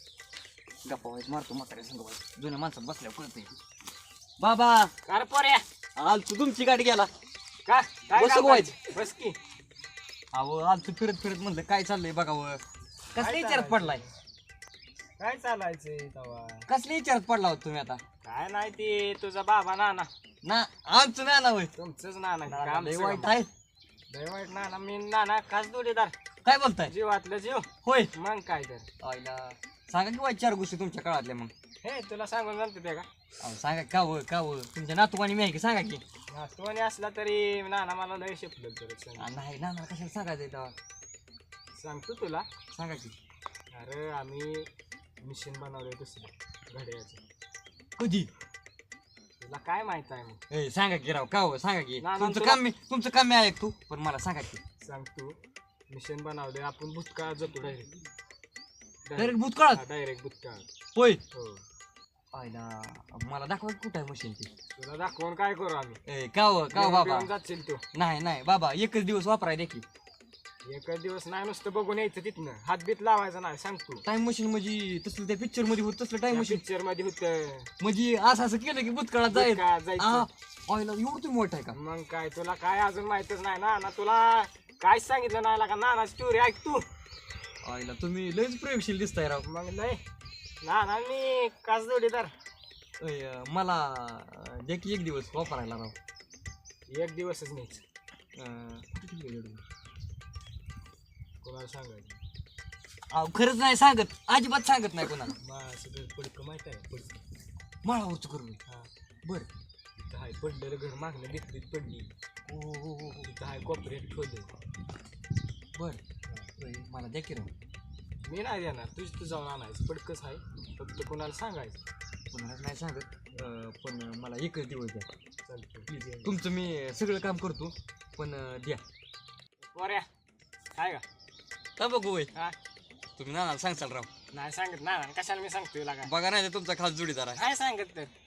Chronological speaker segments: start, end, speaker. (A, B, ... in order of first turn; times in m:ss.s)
0:00.8-0:03.6 A
0:04.4-0:04.9 A
0:05.0-0:05.6 B
0:06.0-0:07.1 A
0:07.6-0:09.4 B
0:08.1-0:08.8 A
0:10.3-0:12.6 A
0:13.1-0:14.0 A
0:13.2-0:14.1 B
0:15.2-0:16.7 B
0:16.7-0:18.0 A
0:18.2-0:20.1 B
0:20.4-0:21.7 A
0:21.8-0:23.4 B
0:22.5-0:23.5 A
0:24.1-0:26.1 B
0:26.4-0:26.9 A
0:26.8-0:28.9 B
0:27.8-0:28.1 A
0:29.0-0:31.5 A
0:31.8-0:33.1 B
0:33.4-0:36.0 A
0:36.3-0:39.3 B
0:39.2-0:40.8 A
0:41.8-0:42.4 B
0:42.7-0:43.1 A
0:43.7-0:44.7 B
0:45.2-0:47.2 B
0:48.0-0:48.3 A
0:49.4-0:50.4 B
0:50.5-0:54.6 A
0:52.0-0:52.6 B
0:54.8-0:55.4 B
0:55.9-0:58.0 B
0:59.1-1:00.7 B
0:59.1-0:59.8 A
1:01.0-1:01.2 A
1:01.3-1:01.6 B
1:02.3-1:04.5 A
1:04.8-1:06.0 B
1:06.0-1:07.3 A
1:06.7-1:07.8 B
1:07.9-1:09.8 A
1:10.6-1:14.0 B
1:14.0-1:16.6 A
1:16.3-1:17.7 B
1:17.8-1:21.8 A
1:19.3-1:20.3 B
1:21.7-1:26.9 B
1:27.6-1:29.4 A
1:29.4-1:30.0 B
1:30.6-1:32.3 B
1:33.0-1:36.0 A
1:36.9-1:37.8 B
1:38.3-1:39.6 A
1:41.4-1:42.2 B
1:43.1-1:45.4 A
1:45.4-1:47.2 B
1:47.8-1:48.6 A
1:50.0-1:52.1 B
1:52.5-1:53.3 A
1:53.2-1:54.5 B
1:55.7-1:56.0 A
1:56.6-1:57.5 A
1:58.2-2:01.8 B
2:02.3-2:05.1 A
2:05.4-2:06.4 B
2:05.9-2:08.8 A
2:09.7-2:10.1 B
2:10.8-2:11.0 B
2:11.8-2:12.3 A
2:13.2-2:14.1 A
2:14.3-2:16.1 B
2:16.0-2:17.4 A
2:17.3-2:18.1 B